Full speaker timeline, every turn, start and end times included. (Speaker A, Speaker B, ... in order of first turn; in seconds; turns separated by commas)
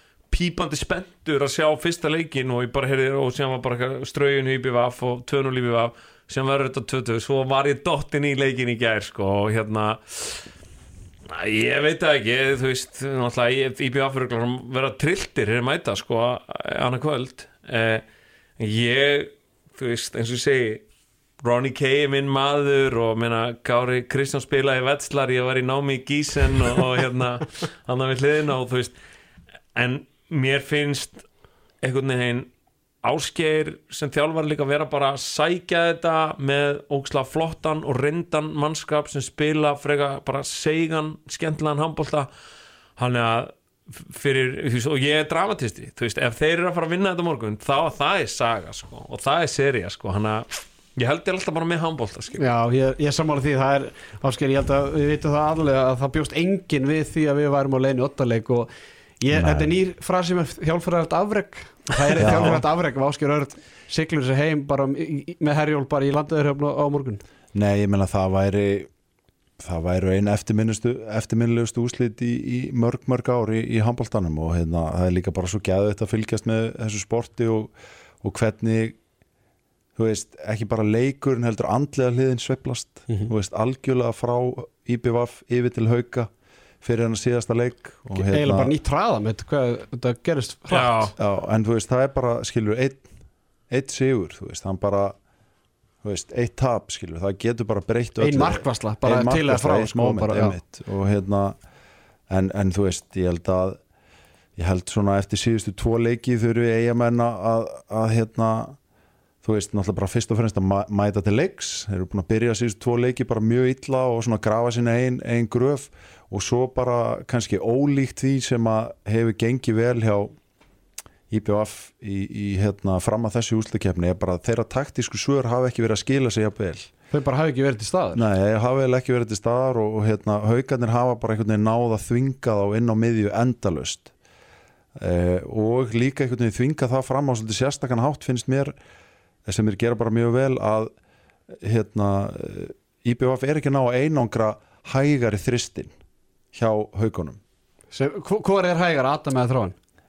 Speaker A: 0.3-10.4, Speaker A: 11.3-18.0, Speaker A: 18.6-20.8, Speaker A: 21.4-28.9, Speaker A: 29.7-31.2, Speaker A: 31.8-32.5, Speaker A: 33.0-42.3, Speaker A: 43.0-52.4, Speaker B: 52.4-58.7, Speaker B: 59.2-67.2, Speaker C: 59.3-59.7, Speaker C: 62.2-62.6, Speaker C: 67.5-68.9, Speaker C: 69.6-79.0, Speaker C: 80.0-86.3, Speaker C: 86.8-88.7, Speaker B: 88.2-91.1, Speaker A: 90.7-91.1, Speaker C: 91.2-93.1, Speaker C: 93.7-95.2, Speaker C: 96.0-101.6, Speaker B: 98.2-100.5, Speaker C: 102.3-103.8, Speaker C: 104.6-108.8, Speaker C: 109.4-120.3, Speaker C: 121.3-126.9, Speaker B: 127.1-128.2, Speaker C: 128.1-134.1, Speaker C: 135.0-138.8, Speaker C: 139.4-140.9, Speaker C: 141.6-145.9, Speaker C: 146.5-147.4, Speaker B: 147.9-149.7